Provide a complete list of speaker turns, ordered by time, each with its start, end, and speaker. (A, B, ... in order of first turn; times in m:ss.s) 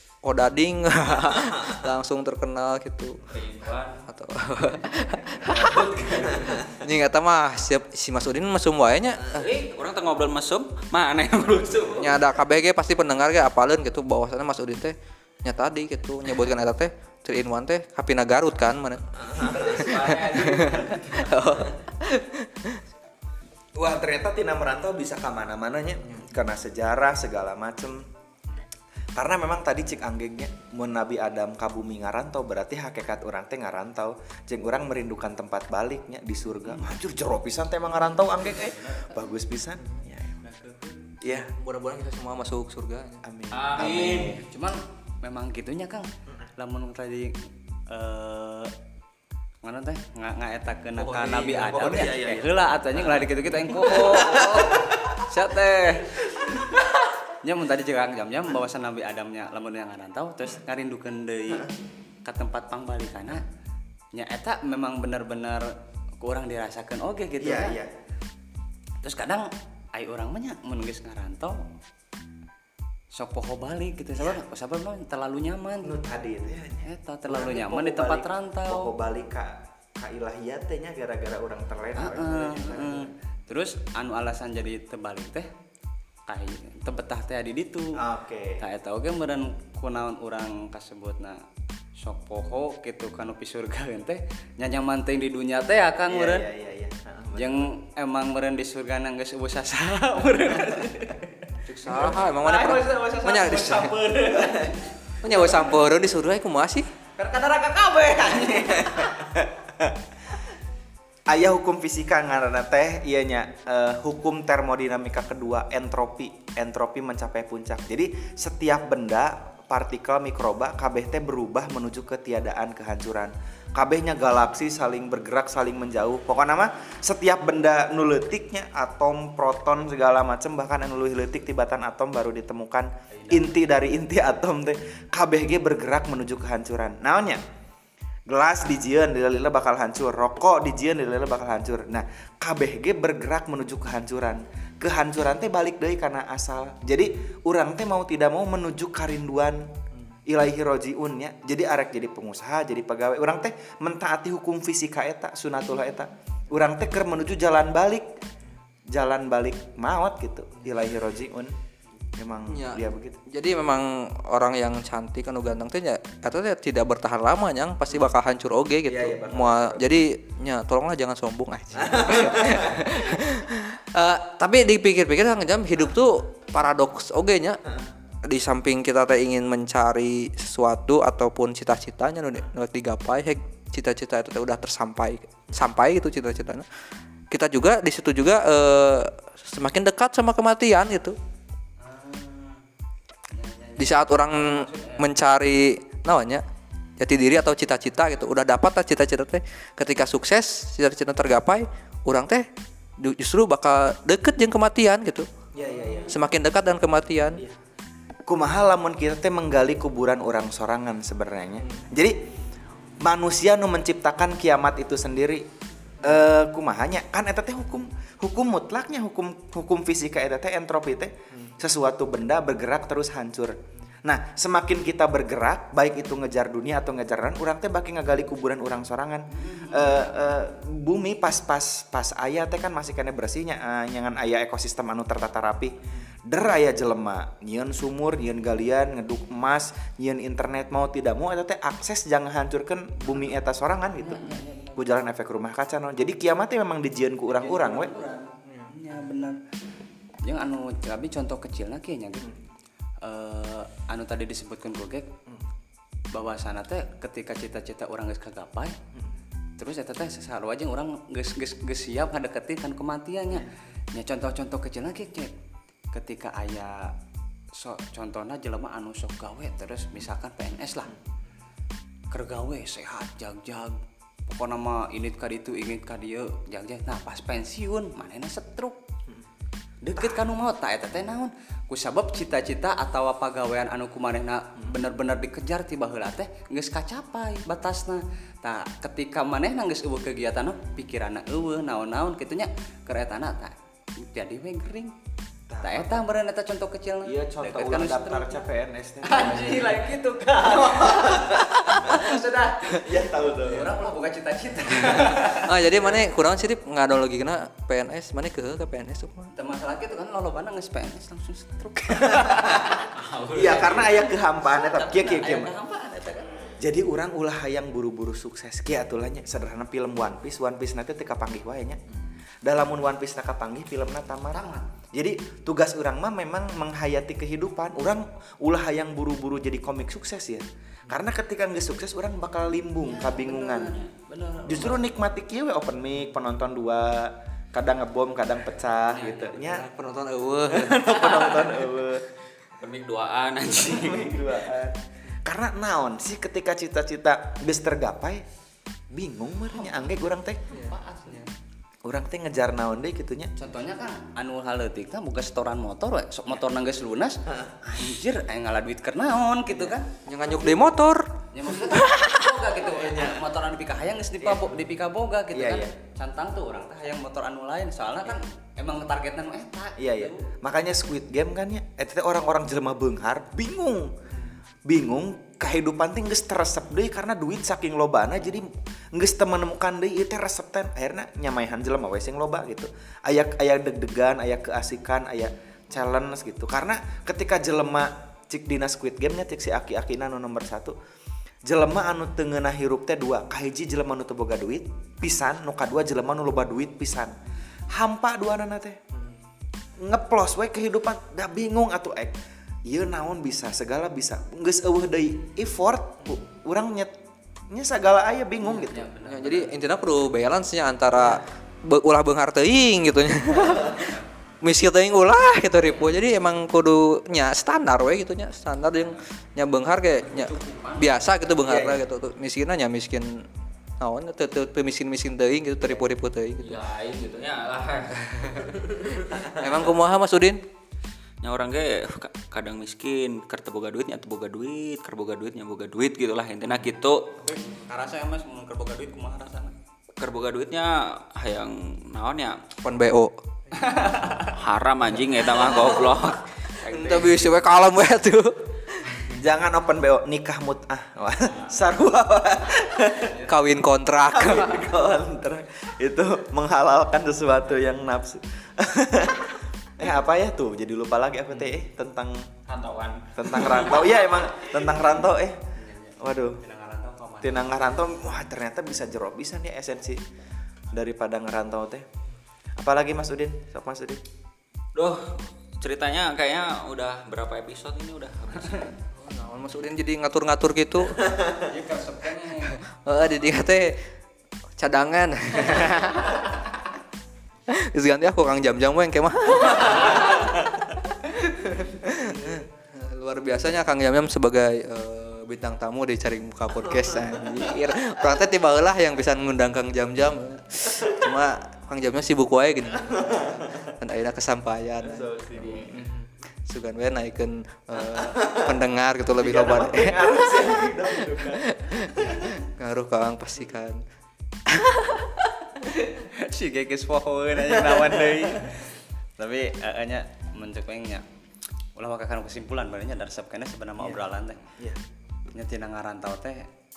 0:00.2-0:03.3 A
0:03.3-0:04.0 B
0:04.1-0:09.4 A
0:05.6-0:06.6 C
0:09.3-0:12.2 B
0:12.0-0:22.8 A
0:19.2-0:20.7 C
0:19.7-0:20.2 B
0:20.0-0:20.8 D
0:23.7-0:28.0 C
0:29.2-0:40.4 C
0:38.4-0:39.3 D
0:40.4-0:41.2 D
0:41.2-0:41.5 C
0:41.2-0:43.2 A
0:43.2-0:44.4 C
0:43.5-0:44.4 B
0:44.3-0:47.4 D
0:47.9-0:48.7 D
0:49.6-1:01.7 D
0:51.0-0:52.1 A
0:51.7-0:55.2 C
0:56.3-0:56.6 C
1:02.2-1:03.4 D
1:04.1-1:07.8 D
1:07.4-1:07.9 C
1:09.0-1:11.6 D
1:13.1-1:16.0 D
1:15.8-1:23.1 C
1:16.8-1:18.9 D
1:22.0-1:25.5 D
1:26.3-1:28.0 D
1:28.0-1:28.6 C
1:28.6-1:31.4 D
1:32.0-1:36.5 D
1:36.1-1:37.7 C
1:37.3-1:41.3 D
1:41.6-1:44.0 A
1:41.8-1:44.9 D
1:44.4-1:44.7 C
1:45.2-1:46.9 A
1:47.2-1:49.1 D
1:48.6-1:49.5 C
1:51.3-2:17.4 C
2:13.1-2:13.7 D
2:18.3-2:29.7 C
2:30.3-2:38.1 C
2:38.9-2:41.5 C
2:42.2-2:43.2 C
2:42.5-2:57.6 A
2:48.9-2:49.8 C
2:51.8-2:52.9 C
2:58.2-3:06.6 A
3:07.3-3:11.2 A
3:11.8-3:12.6 D
3:13.3-3:15.1 D
3:13.8-3:16.4 A
3:17.0-3:22.5 A
3:23.0-3:25.3 A
3:25.5-3:26.2 C
3:26.1-3:27.4 A
3:28.2-3:32.1 C
3:33.0-3:35.4 C
3:36.0-4:07.9 C
3:49.3-3:50.1 D
4:04.0-4:04.9 D
4:07.4-4:09.4 D
4:08.4-4:08.7 A
4:10.2-4:12.4 D
4:13.0-4:15.1 D
4:16.1-4:18.8 D
4:19.6-4:25.3 D
4:25.9-4:26.9 D
4:27.5-4:30.9 D
4:32.1-4:38.8 D
4:39.8-4:54.9 D
4:55.5-4:56.1 C
4:55.6-4:58.4 D
4:57.0-4:59.7 C
4:59.0-5:05.5 D
5:00.5-5:02.1 C
5:02.7-5:03.8 C
5:05.0-5:09.3 A
5:09.3-5:16.5 D
5:12.0-5:15.5 C
5:13.2-5:13.4 B
5:16.6-5:21.8 C
5:22.4-5:24.4 C
5:24.3-5:24.7 D
5:24.9-5:33.8 C
5:32.8-5:34.9 D
5:34.4-5:39.6 C
5:38.8-5:39.6 D
5:39.4-5:40.8 A
5:40.5-5:42.0 C
5:40.9-5:41.5 D
5:42.6-5:44.1 B
5:43.6-5:48.2 C
5:48.9-5:50.4 C
5:49.5-5:49.9 D
5:50.5-5:51.3 A
5:50.5-5:51.3 D
5:51.8-5:53.3 C
5:53.4-5:59.9 D
6:00.0-6:01.1 A
6:01.3-6:10.3 D
6:01.6-6:02.4 A
6:02.8-6:03.2 C
6:05.3-6:05.7 C
6:09.8-6:13.9 C
6:14.6-6:30.7 C
6:31.4-6:37.1 C
6:37.7-6:38.8 C
6:39.8-6:42.1 C
6:42.6-6:46.9 C
6:47.5-6:48.9 C
6:48.4-6:49.6 D
6:49.0-7:03.3 A
7:00.0-7:01.0 D
7:01.4-7:01.8 C
7:03.8-7:06.6 A
7:06.4-7:08.6 B
7:08.2-7:08.7 A
7:09.3-7:10.4 A
7:11.2-7:17.1 B
7:17.2-7:19.5 D
7:20.0-7:22.4 B
7:22.6-7:23.2 A
7:23.6-7:24.3 D
7:24.3-7:27.2 B
7:26.6-7:29.0 A
7:29.1-7:33.2 C
7:33.2-7:34.7 A
7:34.1-7:42.3 C
7:42.5-7:43.8 B
7:43.1-7:45.4 C
7:45.6-7:47.8 D
7:46.0-7:46.4 C
7:47.2-7:50.0 C
7:50.7-7:51.8 C
7:52.6-7:54.0 C
7:54.7-7:58.7 B
7:58.9-8:01.0 A
8:01.1-8:01.4 C
8:01.4-8:02.6 D
8:02.7-8:03.8 A
8:04.6-8:06.2 A
8:07.5-8:25.1 A
8:16.9-8:17.4 C
8:22.9-8:23.7 C
8:24.8-8:25.8 C
8:25.4-8:25.8 D
8:25.6-8:33.8 A
8:27.9-8:28.5 C
8:29.2-8:32.4 C
8:34.5-8:35.1 A
8:35.9-8:41.0 D
8:37.7-8:38.2 C
8:41.8-8:44.4 D
8:45.3-8:46.5 D